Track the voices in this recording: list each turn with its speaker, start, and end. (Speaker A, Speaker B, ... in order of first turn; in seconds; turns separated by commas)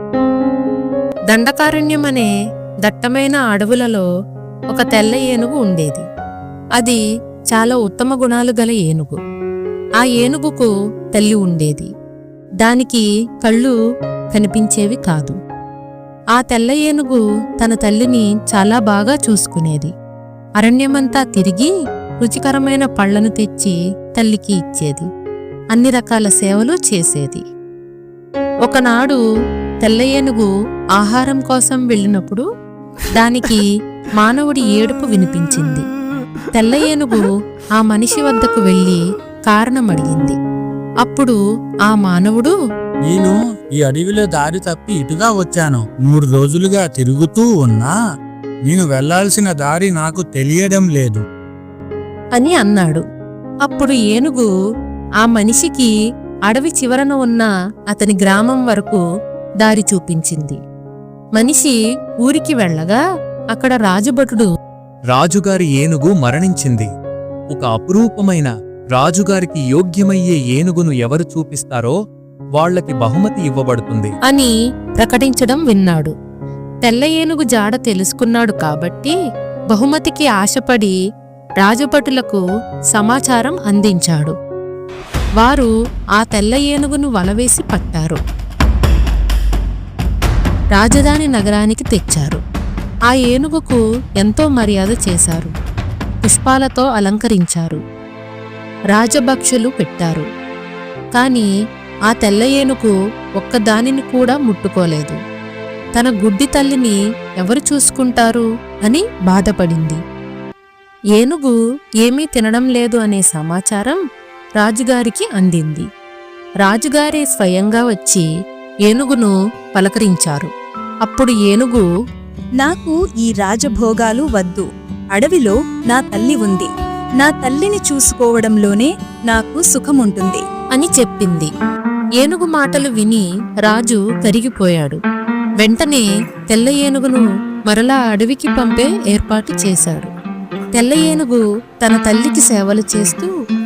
Speaker A: 1.3-2.3, Speaker A: 2.9-4.0, Speaker A: 4.7-6.1, Speaker A: 7.5-9.2, Speaker A: 10.0-11.9, Speaker A: 12.6-13.8, Speaker A: 14.3-15.4, Speaker A: 16.4-19.9, Speaker A: 20.6-25.1, Speaker A: 25.7-27.4, Speaker A: 28.6-29.2, Speaker A: 29.8-32.5, Speaker A: 33.2-33.7, Speaker A: 34.2-35.9, Speaker A: 36.5-40.4, Speaker A: 41.0-42.5, Speaker B: 43.0-48.0, Speaker B: 48.7-51.2, Speaker A: 52.4-53.0, Speaker A: 53.6-54.5, Speaker A: 55.2-55.9, Speaker A: 56.5-59.0, Speaker A: 59.6-60.6, Speaker A: 61.4-63.0, Speaker A: 63.5-64.5, Speaker C: 65.1-66.9, Speaker C: 67.5-72.0, Speaker C: 72.6-74.1, Speaker A: 74.3-76.1, Speaker A: 76.8-79.2, Speaker A: 79.7-81.0, Speaker A: 81.6-84.4, Speaker A: 85.4-88.2, Speaker A: 90.7-92.4, Speaker A: 93.1-95.5, Speaker A: 96.2-97.8, Speaker A: 98.9-100.3, Speaker A: 101.2-101.5, Speaker A: 102.1-105.2, Speaker A: 106.0-110.0, Speaker A: 111.2-114.0, Speaker A: 114.6-115.9, Speaker A: 116.6-118.3, Speaker A: 118.9-120.5, Speaker A: 121.0-121.9, Speaker D: 122.6-130.4, Speaker A: 130.8-131.5, Speaker A: 132.2-135.0, Speaker A: 135.6-140.1, Speaker A: 140.8-143.3